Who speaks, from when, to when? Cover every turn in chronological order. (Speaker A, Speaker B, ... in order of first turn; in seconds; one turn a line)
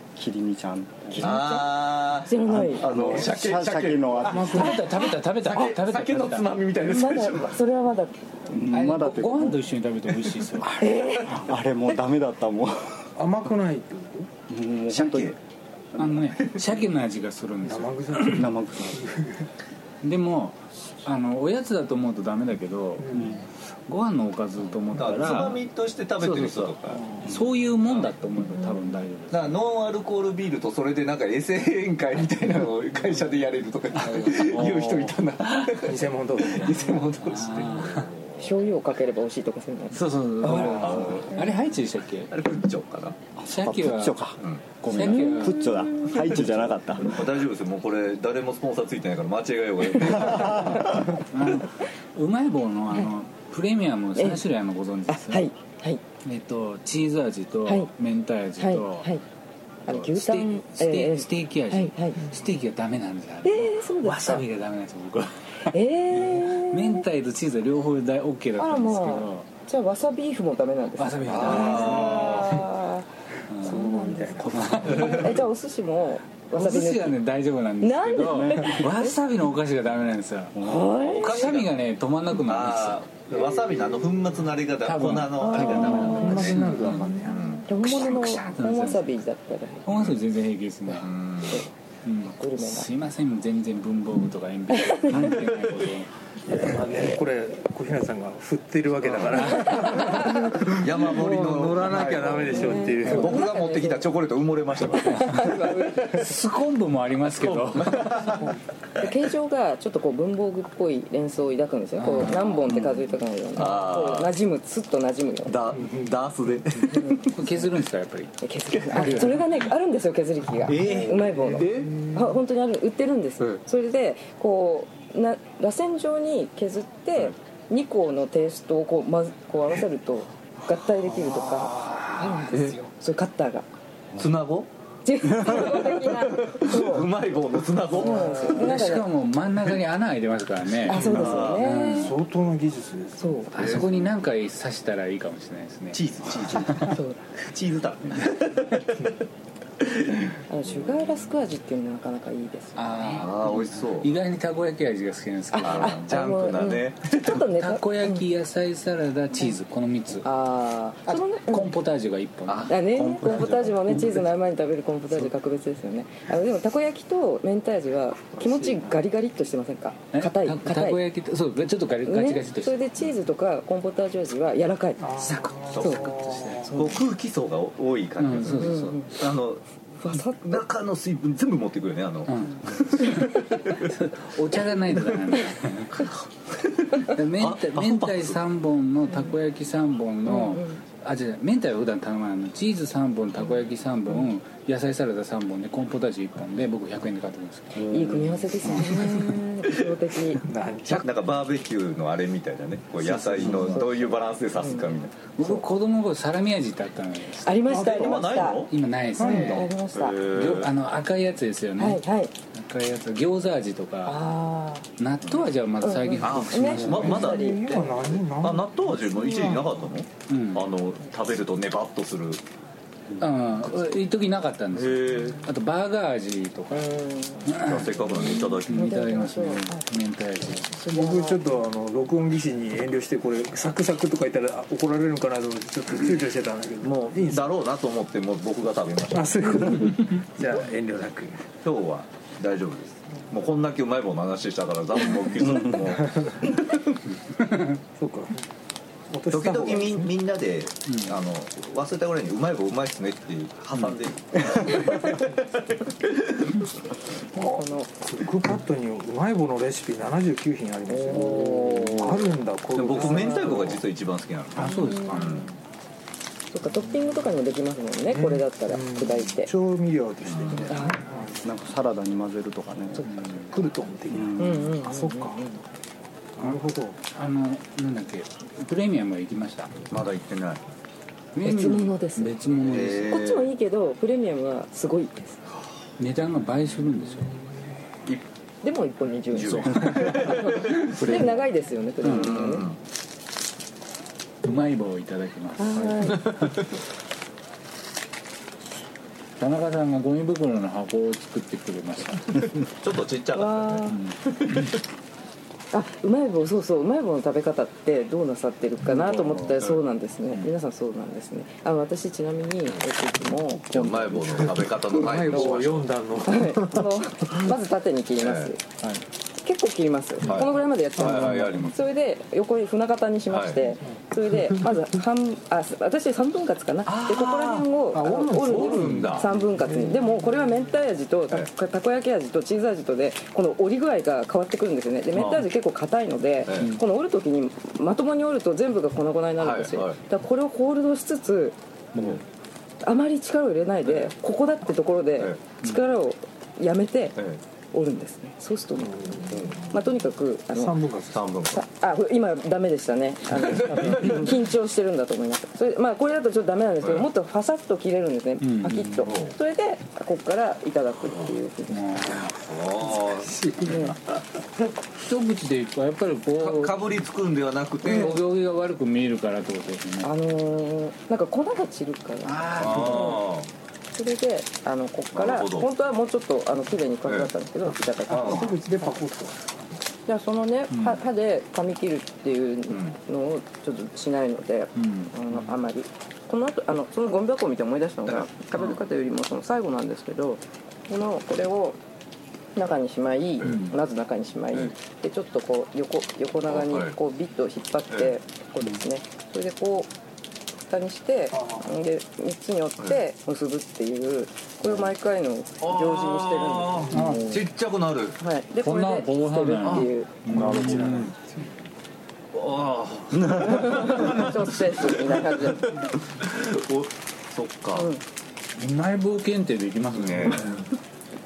Speaker A: 0.1-1.4
Speaker B: 1.1-2.8
Speaker C: 1.2-7.6
Speaker A: 2.4-4.7
Speaker D: 4.2-6.5
Speaker E: 4.3-5.1
Speaker B: 6.8-8.2
Speaker A: 8.5-9.6
Speaker D: 8.7-10.7
Speaker C: 10.1-10.5
Speaker A: 10.6-13.0
Speaker B: 10.8-11.4
Speaker E: 13.2-14.3
Speaker A: 14.5-15.3
Speaker C: 14.9-15.4
Speaker D: 15.9-18.5
Speaker C: 16.0-16.8
Speaker E: 17.6-19.5
Speaker A: 18.3-19.1
Speaker D: 20.0-25.6
Speaker E: 23.0-23.4
Speaker C: 24.9-27.0
Speaker D: 26.2-29.6
Speaker E: 26.9-27.4
Speaker C: 29.3-38.5
Speaker D: 34.0-35.9
Speaker E: 35.8-36.9
Speaker D: 37.2-38.1
Speaker B: 38.4-41.5
Speaker D: 39.9-42.3
Speaker C: 40.5-41.5
Speaker C: 42.3-43.2
Speaker A: 43.4-47.2
Speaker D: 43.5-44.2
Speaker D: 44.8-46.7
Speaker B: 45.1-46.1
Speaker C: 47.0-51.2
Speaker D: 50.4-55.5
Speaker B: 54.1-54.4
Speaker B: 55.1-56.0
Speaker D: 56.2-59.1
Speaker B: 58.6-59.2
Speaker B: 59.9-62.2
Speaker D: 59.9-69.5
Speaker B: 63.4-64.4
Speaker B: 65.7-67.0
Speaker B: 68.6-73.1
Speaker D: 71.0-72.6
Speaker C: 71.2-72.6
Speaker E: 71.7-72.6
Speaker D: 73.5-75.4
Speaker E: 73.6-75.4
Speaker B: 73.6-77.2
Speaker D: 76.5-83.0
Speaker B: 77.8-79.2
Speaker B: 80.6-81.4
Speaker C: 80.9-81.7
Speaker C: 82.3-86.7
Speaker E: 83.6-84.0
Speaker D: 84.8-89.1
Speaker E: 85.4-87.4
Speaker B: 85.4-86.5
Speaker C: 87.2-87.7
Speaker B: 87.7-89.8
Speaker D: 89.8-91.1
Speaker C: 89.9-90.2
Speaker C: 90.9-91.6
Speaker B: 91.4-91.7
Speaker D: 92.0-96.1
Speaker B: 92.2-92.9
Speaker B: 94.7-95.3
Speaker C: 95.1-95.9
Speaker E: 96.5-103.4
Speaker C: 99.0-99.7
Speaker D: 99.6-100.4
Speaker B: 99.8-100.6
Speaker C: 100.2-105.6
Speaker B: 102.5-104.1
Speaker B: 104.9-106.2
Speaker D: 106.0-108.3
Speaker C: 107.7-108.4
Speaker E: 108.3-108.5
Speaker B: 109.0-115.6
Speaker D: 112.0-112.9
Speaker C: 113.5-114.3
Speaker C: 115.5-117.3
Speaker E: 115.7-116.1
Speaker B: 116.9-117.3
Speaker D: 117.3-118.3
Speaker B: 118.4-133.7
Speaker C: 118.8-119.1
Speaker D: 118.9-119.4
Speaker C: 120.7-122.0
Speaker E: 120.9-122.2
Speaker D: 131.1-132.5
Speaker C: 132.5-132.8
Speaker C: 134.2-134.7
Speaker B: 135.0-137.1
Speaker C: 135.4-138.7
Speaker B: 137.9-139.1
Speaker D: 138.1-142.2
Speaker B: 140.8-142.1
Speaker E: 140.9-143.8
Speaker C: 141.0-141.7
Speaker B: 143.2-143.8
Speaker D: 143.5-146.9
Speaker C: 143.5-144.1
Speaker C: 145.9-149.1
Speaker B: 146.8-147.2
Speaker C: 149.8-150.3
Speaker B: 150.5-153.3
Speaker D: 152.8-156.1
Speaker C: 153.1-154.1
Speaker B: 155.5-158.2
Speaker C: 155.6-157.4
Speaker D: 157.3-160.2
Speaker B: 160.2-161.7
Speaker D: 161.1-164.0
Speaker C: 162.5-163.5
Speaker B: 162.7-171.0
Speaker E: 163.3-164.2
Speaker E: 168.3-169.0
Speaker D: 170.1-172.8
Speaker B: 172.0-175.1
Speaker E: 175.0-176.8
Speaker D: 175.2-177.0
Speaker C: 175.7-183.9
Speaker B: 175.8-176.1
Speaker B: 176.7-177.0
Speaker D: 178.2-179.0
Speaker B: 178.4-179.1
Speaker B: 180.0-180.6
Speaker D: 182.3-186.1
Speaker C: 186.0-188.4
Speaker D: 186.9-199.2
Speaker B: 190.2-190.8
Speaker B: 197.8-200.4
Speaker C: 198.0-199.9
Speaker E: 200.4-201.1
Speaker C: 200.8-205.2
Speaker E: 203.0-203.8
Speaker D: 203.4-203.8
Speaker B: 203.5-204.9
Speaker D: 205.3-207.9
Speaker B: 207.4-210.2
Speaker C: 207.7-208.8
Speaker E: 207.7-208.0
Speaker D: 208.5-209.7
Speaker E: 209.1-209.6
Speaker C: 209.4-210.7
Speaker D: 210.3-212.0
Speaker B: 211.8-212.3
Speaker D: 212.5-214.2
Speaker B: 214.1-214.9
Speaker D: 215.0-217.4
Speaker B: 215.8-217.6
Speaker C: 216.2-222.4
Speaker E: 217.0-219.6
Speaker D: 220.3-220.7
Speaker D: 223.2-226.9
Speaker C: 224.7-225.4
Speaker B: 226.7-229.8
Speaker D: 227.4-230.7
Speaker C: 227.6-228.9
Speaker B: 230.7-231.4
Speaker E: 230.9-237.5
Speaker C: 236.8-239.9
Speaker E: 239.1-241.5
Speaker C: 241.6-246.5
Speaker E: 245.8-246.6
Speaker E: 247.9-248.4
Speaker E: 249.1-250.1
Speaker C: 249.3-256.5
Speaker D: 250.9-251.1
Speaker E: 257.3-263.8
Speaker B: 257.4-257.9
Speaker B: 260.9-262.3
Speaker C: 262.7-265.5
Speaker B: 262.9-263.7
Speaker D: 264.5-265.5
Speaker B: 264.6-265.5
Speaker B: 266.5-269.5
Speaker E: 268.1-271.5
Speaker C: 270.3-270.8
Speaker B: 270.7-271.1
Speaker A: 271.4-273.1
Speaker D: 273.1-273.5
Speaker E: 273.4-275.4
Speaker B: 274.4-275.6
Speaker E: 276.4-277.0
Speaker D: 277.1-279.7
Speaker C: 279.9-280.6
Speaker D: 281.3-283.2
Speaker B: 281.4-282.3
Speaker C: 282.6-283.5
Speaker B: 283.0-285.4
Speaker D: 286.0-287.3
Speaker B: 288.6-292.7
Speaker C: 289.3-291.4
Speaker D: 289.4-291.3
Speaker D: 292.0-292.5
Speaker C: 292.1-292.8
Speaker D: 294.4-296.6
Speaker B: 295.6-296.3
Speaker C: 296.0-296.5
Speaker D: 299.4-302.6
Speaker C: 302.6-304.7
Speaker B: 303.3-304.0
Speaker D: 303.9-304.6
Speaker B: 305.7-313.9
Speaker D: 308.8-309.6
Speaker C: 313.7-315.9
Speaker E: 314.3-317.5
Speaker B: 315.3-315.6
Speaker B: 316.2-318.6
Speaker C: 318.2-318.5
Speaker B: 319.3-341.6
Speaker E: 320.2-321.7
Speaker C: 320.2-321.8
Speaker C: 323.3-323.7
Speaker E: 323.8-324.8
Speaker D: 326.9-327.5
Speaker C: 326.9-329.3
Speaker E: 327.9-330.3
Speaker D: 328.8-329.2
Speaker C: 335.1-335.4
Speaker C: 336.4-336.8
Speaker C: 339.4-340.0
Speaker D: 341.9-342.2
Speaker B: 342.8-347.2
Speaker C: 343.8-344.1
Speaker B: 347.7-350.8
Speaker E: 348.7-349.8
Speaker C: 349.3-349.6
Speaker E: 350.5-351.2
Speaker C: 351.1-351.6
Speaker B: 351.5-362.2
Speaker C: 353.5-354.1
Speaker C: 356.8-357.1
Speaker D: 358.4-359.1
Speaker C: 359.1-359.3
Speaker D: 361.7-362.3
Speaker C: 362.4-363.7
Speaker E: 362.8-364.0
Speaker B: 363.6-364.0
Speaker D: 365.0-366.8
Speaker C: 366.4-368.2
Speaker B: 367.8-368.2
Speaker D: 367.9-370.1
Speaker B: 370.0-373.2
Speaker D: 372.2-373.2
Speaker C: 372.6-373.5
Speaker B: 373.9-378.6
Speaker C: 375.1-375.7
Speaker C: 377.0-377.3
Speaker E: 378.1-379.6
Speaker C: 378.1-378.5
Speaker B: 380.1-391.8
Speaker D: 380.7-381.0
Speaker D: 384.8-385.5
Speaker B: 392.6-399.9
Speaker D: 393.4-393.7
Speaker C: 396.5-396.9
Speaker B: 400.7-407.2
Speaker E: 401.3-401.7
Speaker C: 405.6-408.2
Speaker E: 406.9-407.2
Speaker D: 406.9-407.4
Speaker B: 408.2-410.4
Speaker D: 408.6-411.1
Speaker A: 410.3-411.0
Speaker E: 410.3-411.5
Speaker C: 412.3-417.9
Speaker B: 413.4-415.8
Speaker B: 417.7-418.0
Speaker D: 418.6-420.6
Speaker C: 419.9-420.6